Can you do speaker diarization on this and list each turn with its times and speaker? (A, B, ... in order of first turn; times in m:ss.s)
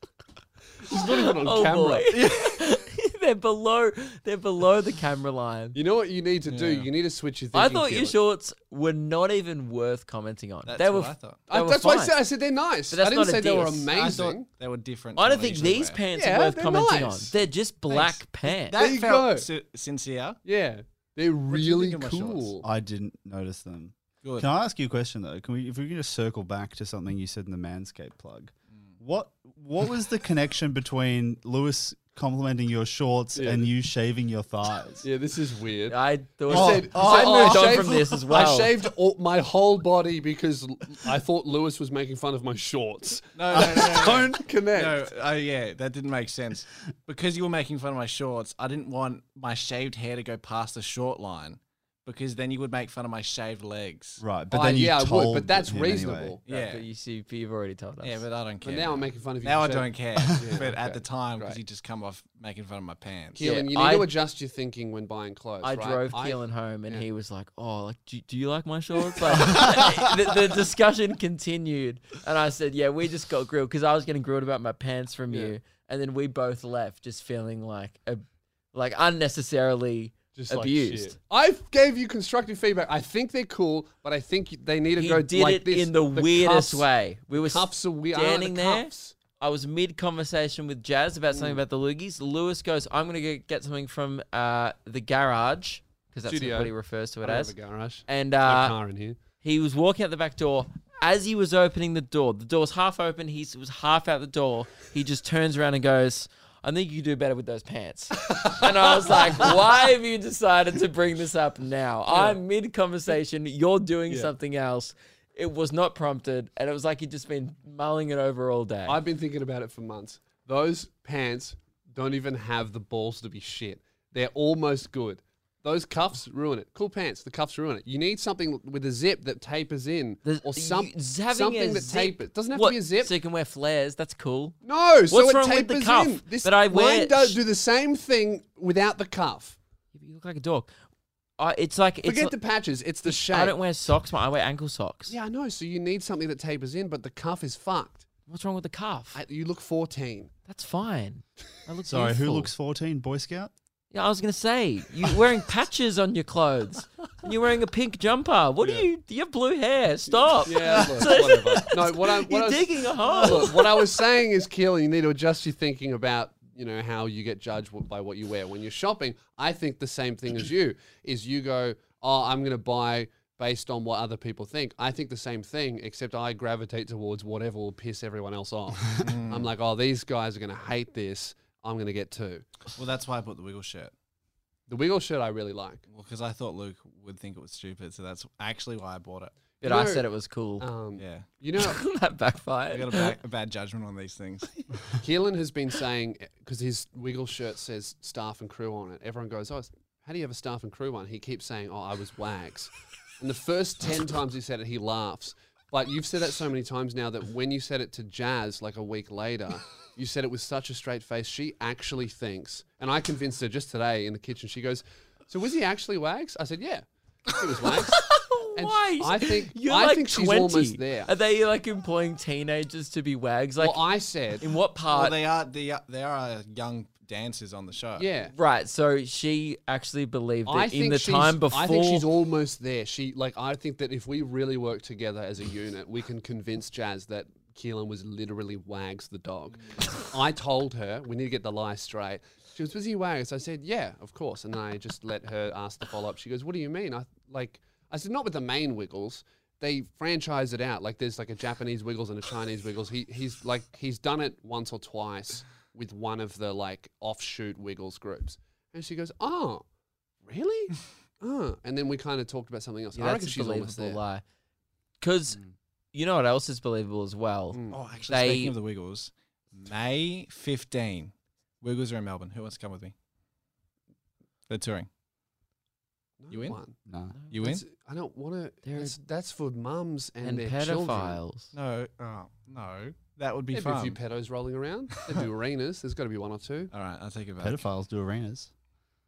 0:00.8-0:02.3 A
0:00.9-0:05.8 B
0:05.7-0:08.2 A
0:06.5-0:06.9 C
0:07.5-0:12.2 B
0:10.7-0:11.4 C
0:11.5-0:14.5 A
0:12.9-0:13.9 B
0:13.9-0:16.0 C
0:15.2-0:18.8 B
0:16.2-0:17.3 A
0:18.7-0:20.4 C
0:18.7-0:19.5 A
0:20.4-0:22.6 A
0:21.5-0:22.5 C
0:22.6-0:35.0 D
0:24.2-0:24.5 C
0:33.4-0:33.6 A
0:35.0-0:36.0 A
0:35.9-0:38.7 B
0:36.5-0:45.1 A
0:36.6-0:37.6 C
0:37.1-0:37.4 D
0:43.4-0:54.2 C
0:54.2-0:56.4 D
0:54.5-0:56.4 A
0:56.5-0:56.9 C
0:56.5-0:58.2 B
0:58.0-1:03.4 C
0:58.6-1:01.6 A
1:03.4-1:07.1 A
1:03.4-1:04.1 B
1:05.6-1:21.2 B
1:20.4-1:29.2 A
1:25.0-1:37.5 B
1:31.3-1:31.6 A
1:36.3-1:39.2 A
1:38.1-1:38.8 B
1:39.4-1:59.0 B
1:52.1-1:52.4 A
1:58.9-2:13.1 A
2:10.2-2:14.6 B
2:14.6-2:19.6 A
2:15.1-2:17.4 B
2:19.9-2:20.7 B
2:21.4-2:22.3 B
2:22.0-2:23.6 A
2:23.0-2:25.2 B
2:25.1-2:28.1 A
2:28.3-2:29.2 B
2:29.1-2:30.3 A
2:30.5-2:32.5 B
2:31.9-2:33.5 D
2:33.9-2:43.9 B
2:38.6-2:38.9 A
2:40.4-3:02.5 A
2:59.0-2:59.5 C
3:02.8-3:03.9 C
3:04.7-3:05.8 A
3:05.9-3:09.3 C
3:09.6-3:10.1 A
3:09.6-3:10.7 B
3:10.6-3:11.8 A
3:11.0-3:11.3 C
3:11.6-3:13.2 B
3:12.7-3:14.6 C
3:15.0-3:41.1 A
3:37.9-3:43.8 B
3:43.6-3:44.4 A
3:44.4-3:45.2 B
3:44.9-3:48.1 C
3:48.0-3:48.3 A
3:48.3-3:52.0 B
3:50.5-4:19.6 A
4:20.2-4:24.0 A
4:23.0-4:24.2 B
4:25.0-4:25.4 B
4:25.9-4:28.5 B
4:27.5-4:27.8 A
4:27.7-4:32.9 C
4:34.5-4:34.9 C
4:36.2-4:36.8 A
4:36.3-4:36.6 C
4:36.9-4:37.2 D
4:37.1-4:37.6 B
4:37.3-4:37.6 C
4:37.4-4:41.2 A
4:38.6-4:39.0 B
4:40.2-4:41.5 B
4:41.5-4:44.0 C
4:43.5-4:46.7 A
4:46.7-4:47.6 C
4:47.4-4:48.5 D